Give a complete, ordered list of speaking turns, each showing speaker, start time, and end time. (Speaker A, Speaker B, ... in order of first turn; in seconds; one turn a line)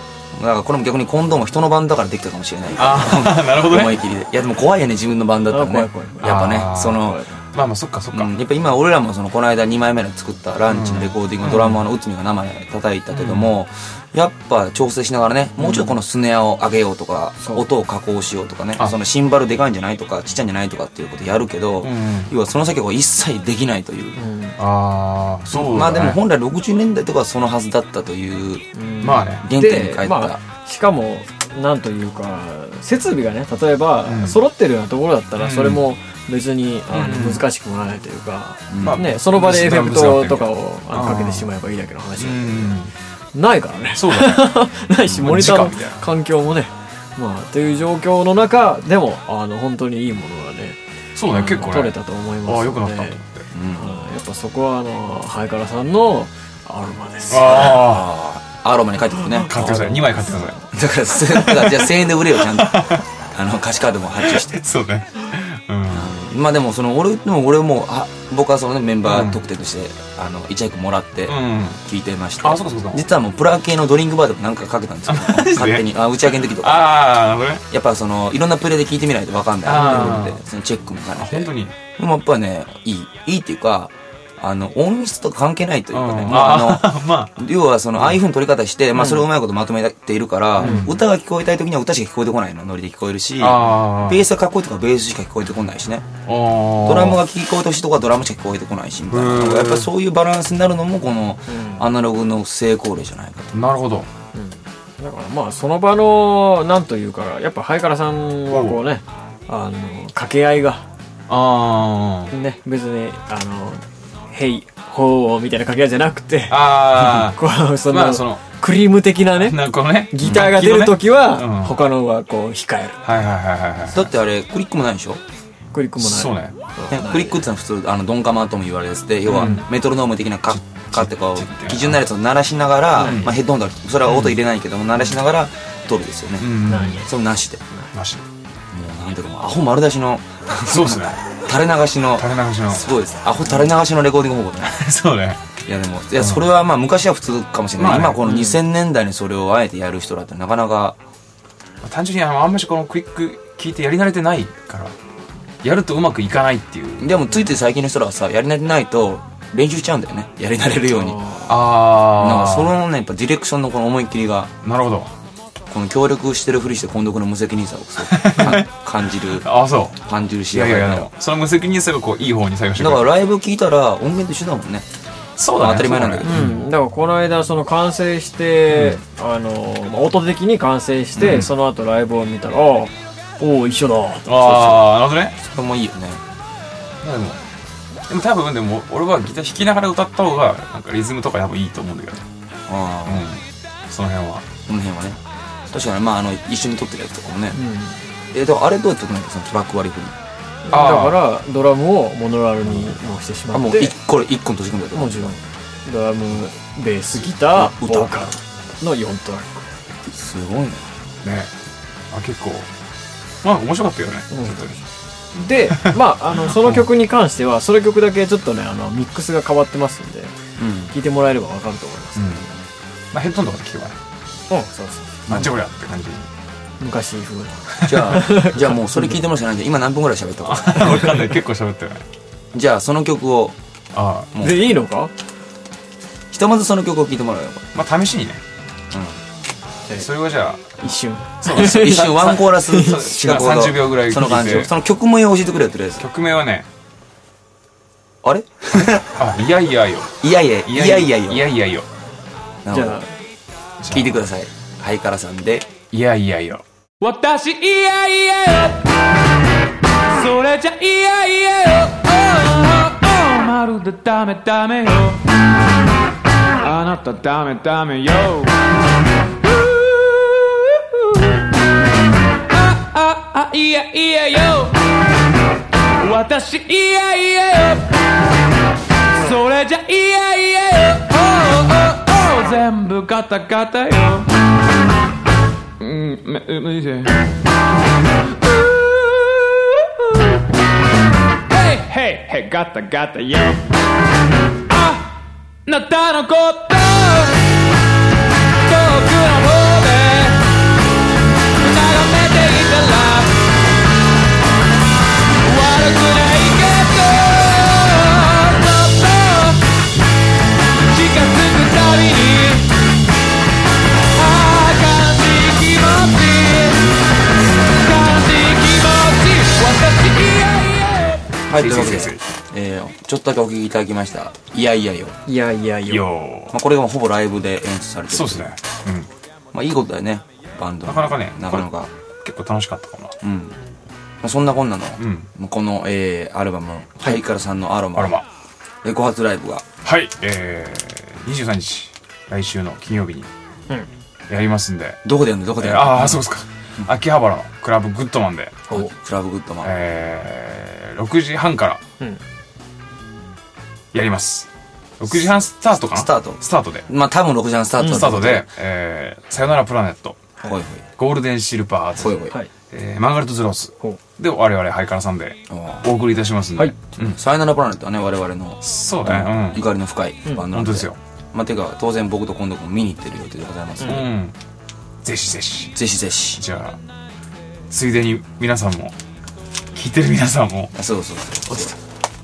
Speaker A: 0.3-7.2
Speaker B: 2.8-4.0
Speaker C: 5.5-6.5
Speaker B: 6.2-8.3
Speaker C: 7.1-7.4
Speaker A: 8.1-24.2
Speaker B: 10.7-11.8
Speaker B: 13.2-13.5
Speaker B: 21.8-22.3
Speaker C: 24.2-24.6
Speaker B: 24.6-26.2
Speaker A: 25.5-28.6
Speaker C: 28.8-42.8
Speaker B: 29.0-29.4
Speaker A: 29.4-30.4
Speaker B: 34.0-34.4
Speaker B: 35.4-35.9
Speaker B: 36.9-37.4
Speaker A: 38.7-39.0
Speaker B: 38.8-41.5
Speaker B: 42.2-42.9
Speaker C: 43.3-50.8
Speaker B: 43.9-46.0
Speaker B: 51.2-51.9
Speaker C: 51.3-53.2
Speaker B: 52.4-53.5
Speaker A: 53.5-53.9
Speaker C: 53.8-57.8
Speaker B: 57.3-58.1
Speaker A: 57.4-59.8
Speaker C: 59.4-60.6
Speaker B: 59.4-60.6
Speaker A: 60.7-64.6
Speaker B: 61.3-63.0
Speaker B: 64.2-66.1
Speaker A: 65.9-77.0
Speaker B: 69.0-69.4
Speaker B: 71.3-71.8
Speaker B: 72.4-73.0
Speaker B: 75.1-77.6
Speaker A: 77.7-96.1
Speaker B: 79.7-80.4
Speaker C: 79.7-80.2
Speaker B: 81.2-81.7
Speaker B: 85.9-87.4
Speaker C: 89.0-89.2
Speaker B: 90.6-91.0
Speaker C: 90.6-90.9
Speaker B: 93.4-94.2
Speaker B: 96.2-97.2
Speaker A: 96.8-103.5
Speaker B: 99.1-99.9
Speaker C: 101.5-101.8
Speaker B: 103.5-104.1
Speaker C: 104.3-110.9
Speaker B: 108.5-108.8
Speaker B: 111.3-112.3
Speaker C: 112.3-123.0
Speaker B: 116.5-118.4
Speaker B: 119.2-121.7
Speaker A: 120.2-120.5
Speaker B: 123.0-124.1
Speaker A: 123.9-125.2
Speaker C: 125.7-127.4
Speaker B: 126.0-126.6
Speaker A: 126.9-136.5
Speaker B: 129.3-129.7
Speaker C: 129.4-129.6
Speaker B: 130.5-132.0
Speaker B: 133.0-133.3
Speaker B: 134.0-134.4
Speaker B: 136.4-137.1
Speaker C: 136.7-137.1
Speaker A: 137.0-137.6
Speaker B: 137.9-138.2
Speaker A: 138.7-144.8
Speaker B: 140.7-141.2
Speaker B: 142.2-142.9
Speaker B: 144.7-145.4
Speaker A: 145.7-151.0
Speaker B: 146.2-146.4
Speaker B: 147.8-148.6
Speaker B: 151.8-154.9
Speaker B: 155.6-157.1
Speaker A: 157.0-161.3
Speaker C: 161.0-161.6
Speaker B: 161.5-162.8
Speaker A: 162.1-164.5
Speaker B: 164.6-165.1
Speaker A: 165.7-169.4
Speaker B: 168.0-168.7
Speaker B: 169.2-170.0
Speaker A: 170.1-171.1
Speaker B: 170.5-173.1
Speaker A: 172.8-174.8
Speaker B: 175.4-176.6
Speaker A: 175.6-176.5
Speaker C: 176.2-184.3
Speaker B: 178.7-179.0
Speaker B: 181.2-181.5
Speaker A: 181.2-181.4
Speaker B: 184.2-185.3
Speaker A: 184.4-186.2
Speaker B: 187.0-187.4
Speaker B: 188.1-192.2
Speaker A: 192.7-193.3
Speaker B: 193.1-194.4
Speaker A: 194.7-197.6
Speaker C: 197.5-198.0
Speaker A: 198.3-200.2
Speaker C: 200.7-203.9
Speaker B: 200.7-201.3
Speaker A: 203.5-205.4
Speaker C: 204.9-209.7
Speaker A: 207.4-208.3
Speaker A: 210.1-210.9
Speaker B: 211.2-211.5
Speaker B: 212.1-212.7
Speaker B: 213.4-214.7
Speaker C: 214.3-214.8
Speaker C: 215.3-220.3
Speaker B: 216.5-216.8
Speaker A: 220.6-220.9
Speaker C: 220.9-222.3
Speaker B: 222.2-222.5
Speaker B: 223.1-224.0
Speaker C: 224.5-225.2
Speaker B: 225.3-226.3
Speaker C: 226.8-228.8
Speaker B: 227.7-228.1
Speaker A: 227.8-231.2
Speaker B: 230.4-232.0
Speaker A: 232.5-233.6
Speaker B: 233.9-234.3
Speaker A: 234.3-234.7
Speaker C: 234.4-235.1
Speaker A: 236.3-237.7
Speaker B: 237.7-238.4
Speaker A: 238.9-239.2
Speaker B: 239.9-240.8
Speaker C: 240.8-243.6
Speaker B: 241.4-242.4
Speaker A: 241.4-246.1
Speaker B: 243.1-244.7
Speaker B: 246.0-246.7
Speaker A: 248.2-249.2
Speaker B: 249.2-251.9
Speaker A: 250.2-251.4
Speaker A: 252.6-253.1
Speaker C: 252.7-253.2
Speaker B: 253.8-254.2
Speaker A: 253.9-255.8
Speaker B: 255.9-256.6
Speaker D: 257.0-258.9
Speaker D: 260.1-265.2
Speaker D: 266.6-268.6
Speaker D: 269.6-271.4
Speaker D: 272.5-274.8
Speaker D: 276.0-277.9
Speaker D: 279.1-284.3
Speaker D: 285.8-287.2
Speaker D: 288.9-289.8
Speaker D: 291.5-293.6
Speaker D: 294.7-295.1
Speaker D: 295.7-297.5
Speaker D: 298.6-300.4
Speaker D: 301.6-303.4
Speaker D: 305.4-309.7
Speaker D: 310.8-312.7
Speaker D: 314.1-316.9
Speaker D: 317.7-321.4
Speaker B: 321.4-322.2
Speaker A: 321.5-325.2
Speaker C: 325.3-326.1
Speaker B: 325.9-326.6
Speaker A: 326.5-328.5
Speaker B: 328.1-329.1
Speaker A: 329.5-331.9
Speaker B: 330.9-331.7
Speaker B: 332.2-333.2
Speaker A: 333.2-333.6
Speaker A: 334.2-338.2
Speaker B: 335.0-335.3
Speaker B: 337.9-338.3
Speaker A: 338.8-339.6
Speaker B: 339.8-343.3
Speaker B: 344.3-345.0
Speaker A: 345.1-346.2
Speaker B: 345.6-348.6
Speaker A: 348.7-349.7
Speaker B: 349.6-351.8
Speaker B: 353.9-354.5
Speaker B: 355.0-356.9
Speaker A: 355.9-358.5
Speaker B: 357.8-360.2
Speaker A: 360.4-360.8
Speaker B: 361.0-367.2
Speaker A: 362.0-362.4
Speaker A: 365.5-365.9
Speaker A: 367.0-374.1
Speaker B: 368.6-369.6
Speaker B: 370.5-371.0
Speaker B: 373.8-374.4
Speaker B: 375.0-375.8
Speaker A: 375.7-376.4
Speaker B: 376.4-376.8
Speaker B: 377.7-378.9
Speaker B: 379.8-380.7
Speaker A: 380.8-381.8